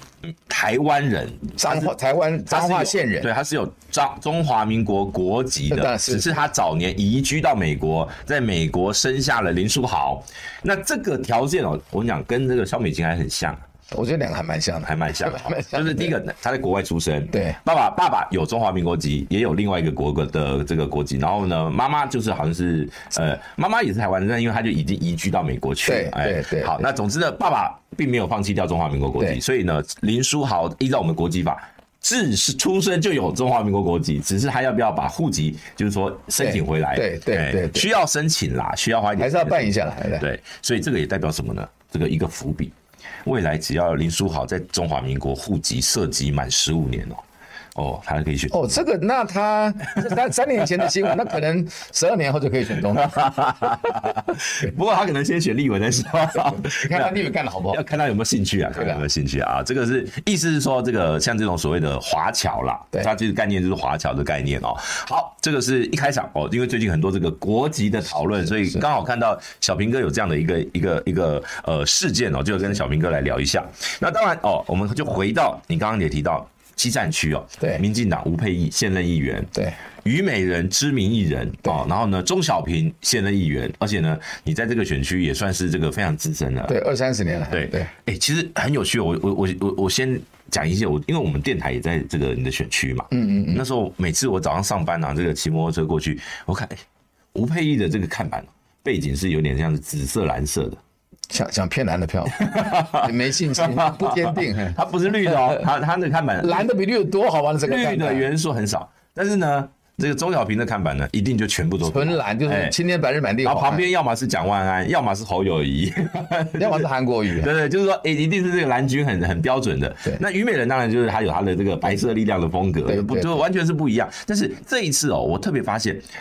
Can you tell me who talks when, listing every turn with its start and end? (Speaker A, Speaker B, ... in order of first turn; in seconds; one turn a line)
Speaker A: 0.3-1.9
Speaker B: 1.6-3.3
Speaker A: 2.5-13.6
Speaker B: 5.7-6.4
Speaker B: 13.9-16.1
Speaker A: 14.8-47.2
Speaker B: 17.3-17.6
Speaker B: 25.9-26.8
Speaker B: 36.4-37.9
Speaker B: 39.2-40.2
Speaker A: 47.8-48.8
Speaker B: 48.5-54.0
Speaker A: 52.8-57.2
Speaker B: 56.4-57.8
Speaker A: 57.7-79.5
Speaker B: 58.8-59.0
Speaker A: 80.0-86.8
Speaker B: 86.7-87.9
Speaker A: 87.5-96.8
Speaker B: 93.1-93.6
Speaker A: 97.3-100.8
Speaker B: 101.3-105.7
Speaker A: 102.4-106.7
Speaker B: 106.4-108.3
Speaker A: 107.6-112.7
Speaker B: 111.8-113.8
Speaker A: 113.5-126.1
Speaker B: 116.6-117.5
Speaker B: 122.9-123.4